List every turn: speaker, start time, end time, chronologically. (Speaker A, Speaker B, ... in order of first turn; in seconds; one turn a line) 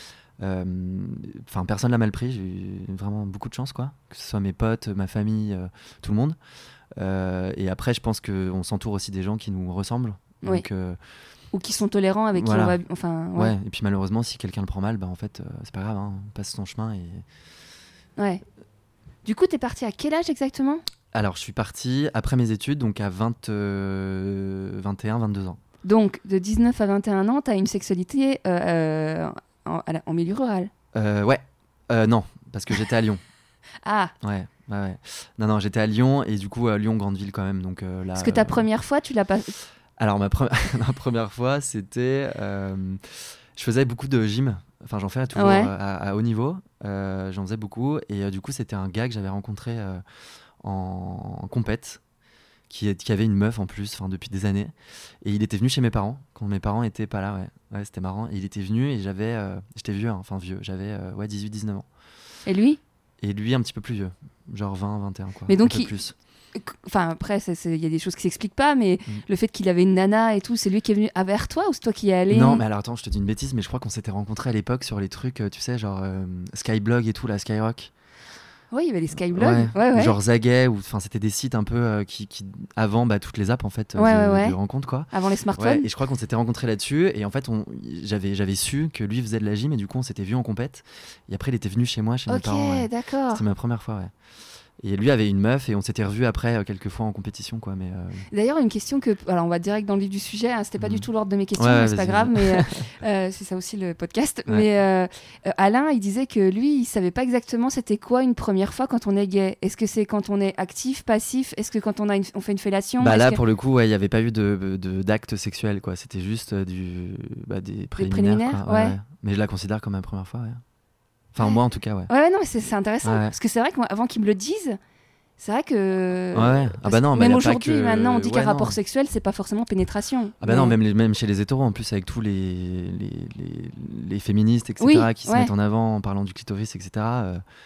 Speaker A: 0.4-6.4
Speaker A: 7.0-11.0
Speaker B: 11.5-13.5
Speaker A: 12.3-12.8
Speaker A: 13.3-17.2
Speaker B: 18.2-18.4
Speaker B: 19.2-20.8
Speaker A: 21.1-25.6
Speaker B: 25.8-30.7
Speaker A: 30.9-33.2
Speaker B: 33.8-34.1
Speaker A: 34.2-38.6
Speaker B: 38.1-39.5
Speaker A: 40.0-50.0
Speaker B: 45.3-45.7
Speaker A: 50.6-52.0
Speaker A: 52.7-61.9
Speaker B: 62.5-62.8
Speaker A: 63.2-66.1
Speaker B: 65.5-65.9
Speaker B: 66.5-72.6
Speaker A: 72.3-77.9
Speaker B: 78.7-80.2
Speaker A: 79.3-94.1
Speaker B: 84.0-84.5
Speaker B: 85.1-85.9
Speaker B: 92.3-93.4
Speaker A: 94.8-98.2
Speaker B: 98.3-113.4
Speaker A: 100.8-102.8
Speaker A: 113.0-120.6
Speaker B: 118.0-119.0
Speaker A: 121.3-122.1
Speaker B: 122.1-124.8
Speaker A: 123.0-123.3
Speaker B: 125.4-130.8
Speaker A: 126.3-128.8
Speaker A: 130.4-137.4
Speaker B: 134.8-135.5